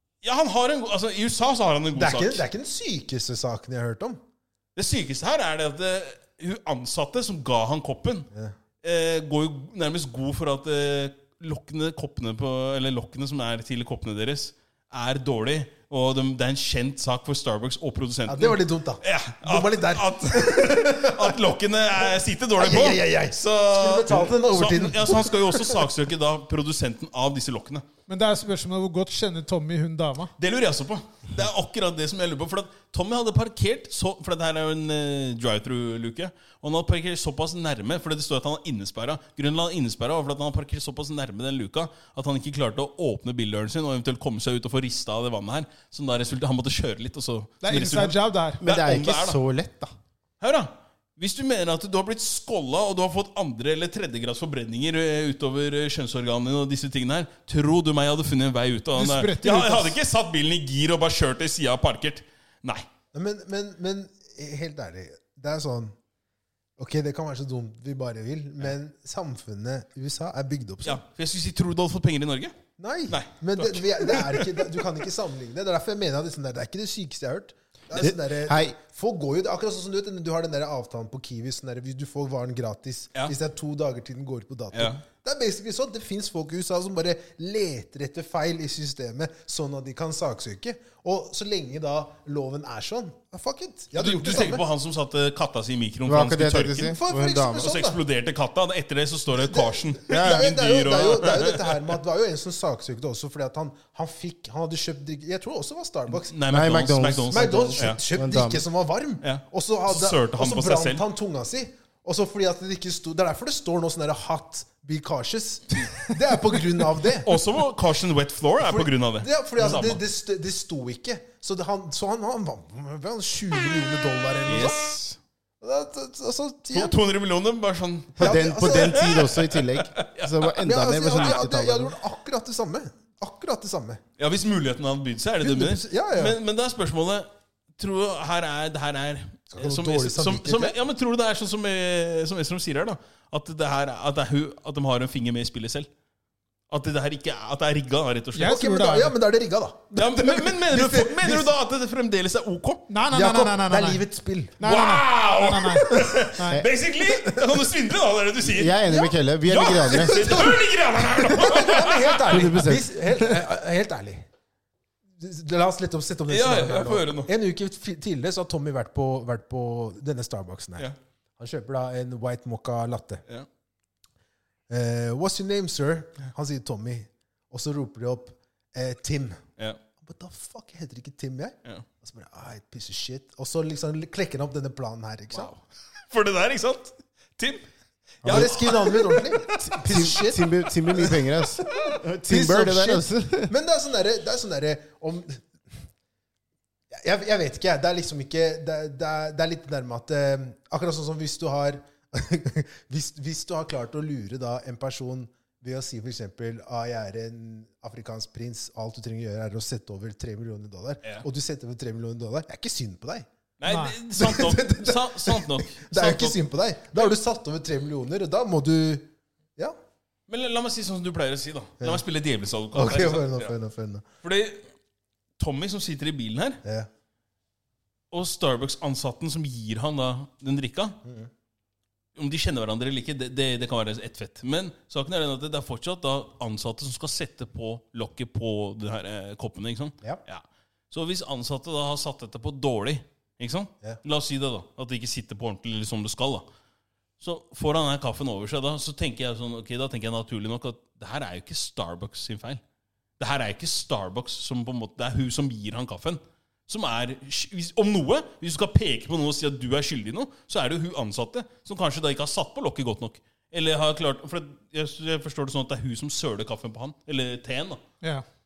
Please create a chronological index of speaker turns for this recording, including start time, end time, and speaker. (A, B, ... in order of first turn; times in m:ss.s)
0:00.2-0:02.4 A
0:01.9-0:04.2 B
0:04.8-0:08.3 A
0:08.8-0:27.8 A
0:18.3-0:21.4 B
0:22.6-0:25.8 B
0:28.1-0:30.3 C
0:30.4-0:49.4 A
0:47.6-0:48.6 C
0:48.6-0:49.9 D
0:50.4-1:02.8 A
0:58.9-1:00.0 C
1:03.1-1:05.9 B
1:06.8-1:11.0 B
1:10.8-1:12.5 A
1:12.8-1:34.6 B
1:13.1-1:14.9 A
1:18.0-1:18.8 D
1:24.7-1:25.0 A
1:33.9-1:36.9 A
1:36.0-1:37.7 D
1:36.8-1:38.0 B
1:37.6-1:42.0 A
1:39.3-1:46.3 B
1:40.1-1:40.5 D
1:46.1-1:48.0 A
1:46.5-1:48.6 D
1:47.3-1:57.4 B
1:49.2-1:51.0 A
1:57.2-2:00.0 A
1:58.6-2:04.8 B
2:04.5-2:05.2 A
2:05.6-2:07.0 B
2:06.7-2:10.5 A
2:08.1-2:12.0 D
2:08.2-2:09.2 B
2:10.6-2:14.0 B
2:11.1-2:11.4 A
2:14.2-2:25.9 A
2:15.4-2:16.4 B
2:19.5-2:20.8 B
2:26.7-2:28.6 A
2:28.3-2:29.1 C
2:28.4-2:31.5 B
2:29.9-2:32.9 A
2:32.9-2:34.0 C
2:33.1-2:34.6 B
2:34.6-2:36.6 C
2:34.6-2:38.8 A
2:35.9-2:36.3 B
2:37.0-2:37.6 B
2:38.4-2:40.5 D
2:38.9-2:39.1 B
2:39.4-2:42.7 A
2:39.8-2:44.3 B
2:42.3-2:43.4 D
2:45.2-2:50.9 B
2:46.3-2:47.3 A
2:51.4-2:53.2 B
2:54.7-2:59.4 B
3:00.0-3:05.5 B
3:05.3-3:07.6 A
3:08.2-3:09.7 A
3:08.2-3:11.1 B
3:09.6-3:13.5 D
3:11.9-3:15.4 B
3:16.9-3:33.3 B
3:33.6-3:36.4 A
3:33.7-3:34.0 C
3:34.1-3:39.7 B
3:40.3-3:43.5 A
3:42.7-3:44.0 B
3:44.2-3:44.6 A
3:45.4-3:46.6 A
3:46.6-3:46.9 B
3:48.1-3:51.0 A
3:52.2-4:06.4 A
4:07.2-4:12.6 A
4:13.2-4:27.8 A